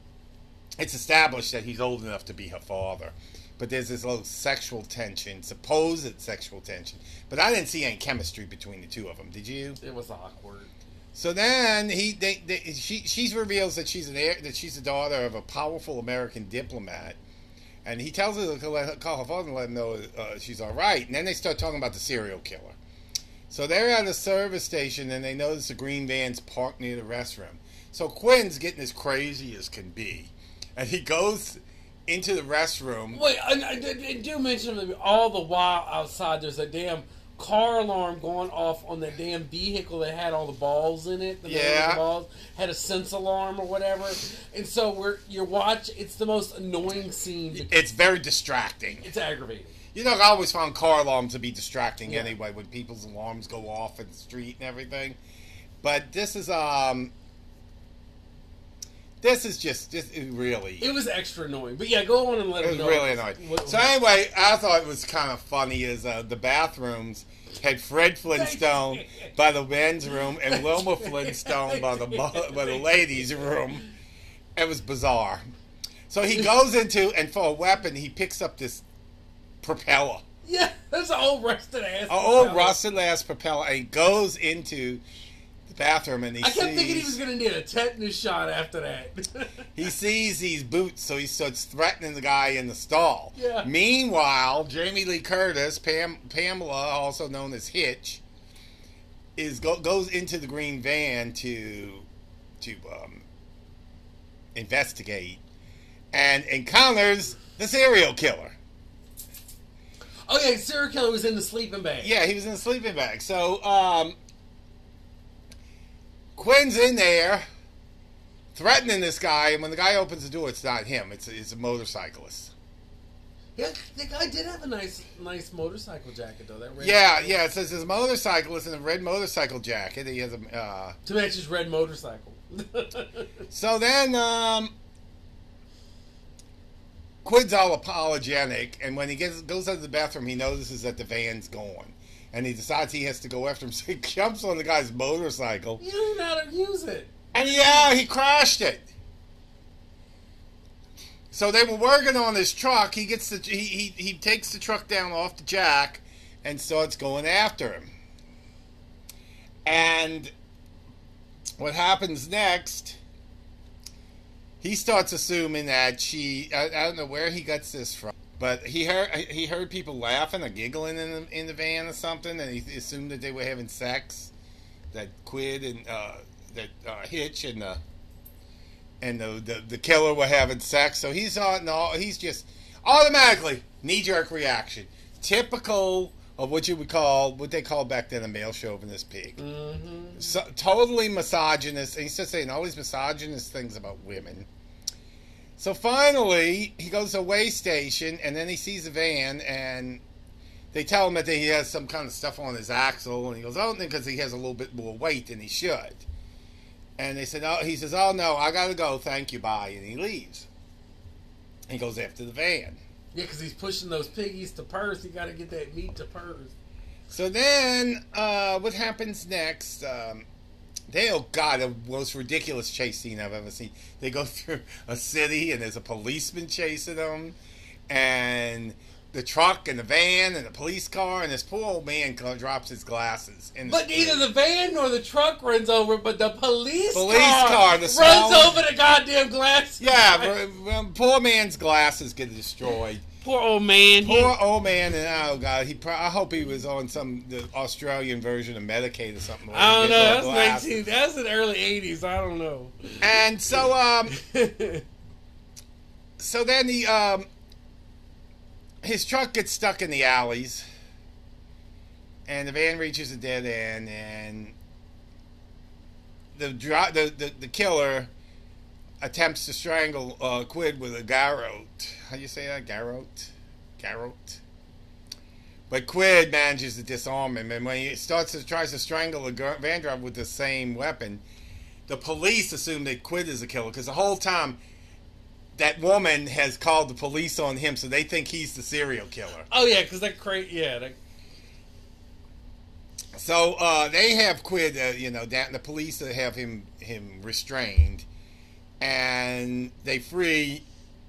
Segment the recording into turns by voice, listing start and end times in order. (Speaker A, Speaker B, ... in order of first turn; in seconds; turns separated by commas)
Speaker A: 0.8-9.8, Speaker B: 9.8-10.7, Speaker A: 11.1-17.2, Speaker A: 17.8-22.8, Speaker A: 23.5-33.2, Speaker B: 33.1-47.9, Speaker A: 41.5-42.0, Speaker A: 47.5-49.1, Speaker B: 49.0-49.8, Speaker A: 49.9-55.2, Speaker B: 52.1-52.3, Speaker A: 55.8-57.1, Speaker A: 59.2-60.9, Speaker B: 60.8-63.9, Speaker A: 62.6-73.8, Speaker B: 68.3-69.3, Speaker B: 70.5-73.2, Speaker A: 74.5-75.4, Speaker A: 76.1-78.8, Speaker A: 79.6-80.2, Speaker B: 80.4-82.8, Speaker A: 82.1-85.0, Speaker A: 85.7-87.2, Speaker B: 86.4-89.7, Speaker A: 89.8-98.2, Speaker B: 93.3-93.7, Speaker A: 99.3-102.1, Speaker A: 102.6-103.2, Speaker A: 104.5-105.4, Speaker A: 106.1-108.5, Speaker B: 110.3-112.1, Speaker A: 112.0-114.2, Speaker A: 116.3-117.4, Speaker A: 118.5-122.5, Speaker B: 123.5-127.4, Speaker A: 126.8-131.0, Speaker B: 131.0-133.4, Speaker A: 133.5-134.7, Speaker A: 137.2-145.8, Speaker B: 145.8-147.8, Speaker A: 147.3-148.9, Speaker A: 151.3-157.9, Speaker A: 159.6-160.3, Speaker A: 161.6-163.0, Speaker A: 164.6-174.3, Speaker A: 174.9-177.8, Speaker A: 179.0-189.4, Speaker B: 189.4-190.3, Speaker A: 190.2-194.5, Speaker A: 195.6-200.0, Speaker A: 200.7-206.1, Speaker A: 207.0-210.5, Speaker A: 211.7-212.8, Speaker B: 213.1-216.5, Speaker A: 217.1-220.2, Speaker A: 220.9-227.3, Speaker A: 227.9-234.2, Speaker B: 233.7-240.3, Speaker A: 236.9-238.6, Speaker A: 239.8-243.0, Speaker B: 243.2-244.3, Speaker A: 244.0-250.7, Speaker B: 249.5-253.2, Speaker A: 253.0-254.1, Speaker B: 254.1-254.8, Speaker A: 256.2-257.3, Speaker A: 258.8-260.6, Speaker A: 262.3-264.6, Speaker A: 266.3-268.1, Speaker A: 269.0-274.4, Speaker A: 275.7-281.2, Speaker A: 281.9-284.6, Speaker A: 285.6-289.5, Speaker B: 289.5-290.9, Speaker A: 293.1-298.1, Speaker A: 298.8-300.6